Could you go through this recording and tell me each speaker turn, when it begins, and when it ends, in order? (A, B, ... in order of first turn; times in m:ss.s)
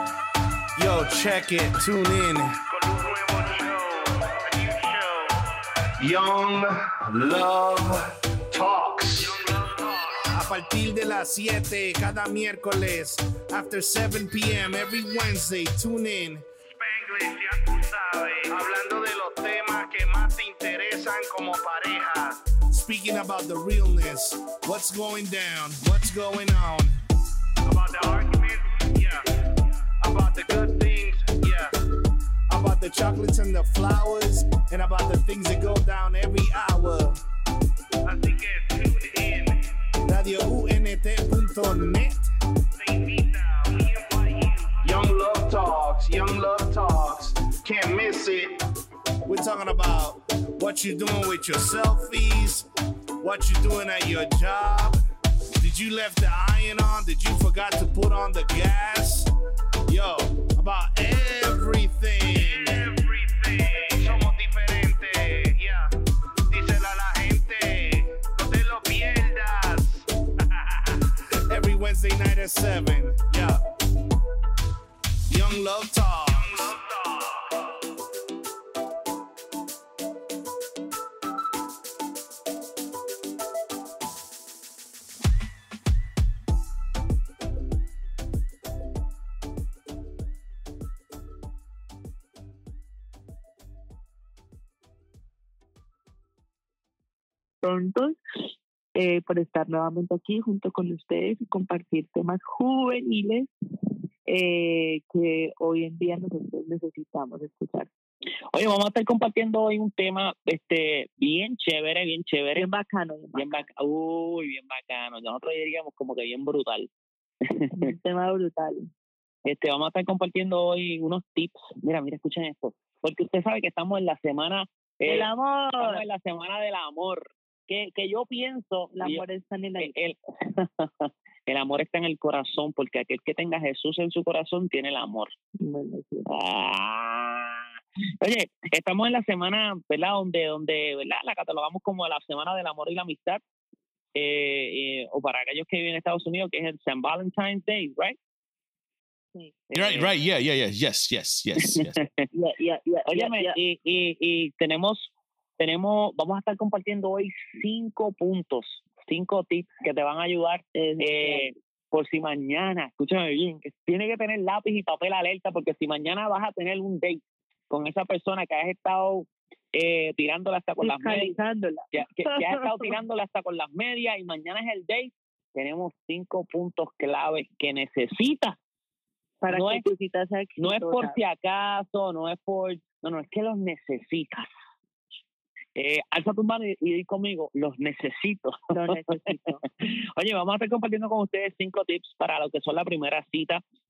0:00.8-0:02.6 A
0:02.7-0:05.5 B
0:06.0-0:09.4 A
0:09.2-0:10.3 B
0:10.3-0:16.4 A
0:16.7-0:22.4 B
0:18.7-0:20.3 A
0:22.7-0:27.0 A
0:27.6-0:29.2 B
0:30.0-0:31.7 B
0:32.5-0:37.2 A
0:38.0-0:39.7 B
0:40.0-0:42.3 A
0:42.8-0:45.0 B
0:44.8-0:48.6 A
0:49.3-0:52.7 A
0:53.2-0:55.0 A
0:55.6-0:59.3 A
0:59.9-1:02.9 A
1:02.4-1:05.8 B
1:06.5-1:10.0 B
1:06.6-1:08.3 A
1:11.5-1:13.6 A
1:15.3-1:16.7 A
1:16.4-1:17.6 B
1:37.6-1:38.2 C
1:39.0-1:43.5 C
1:44.3-1:47.9 C
1:48.5-1:52.7 D
1:52.6-1:53.6 C
1:53.3-1:56.9 D
1:57.4-1:57.8 D
1:57.7-1:58.9 C
1:59.4-2:09.2 D
2:05.1-2:06.0 C
2:09.0-2:09.9 C
2:09.8-2:15.3 D
2:15.6-2:16.3 C
2:16.3-2:17.7 D
2:18.2-2:23.4 D
2:24.2-2:28.2 D
2:29.7-2:30.1 D
2:29.8-2:32.0 E
2:31.6-2:32.3 D
2:32.3-2:33.6 C
2:33.1-2:51.4 D
2:40.8-2:41.5 C
2:50.8-2:52.9 C
2:51.9-2:58.6 D
2:59.4-3:01.2 C
2:59.5-2:59.8 D
3:00.6-3:04.5 D
3:05.8-3:13.6 D
3:08.7-3:09.6 C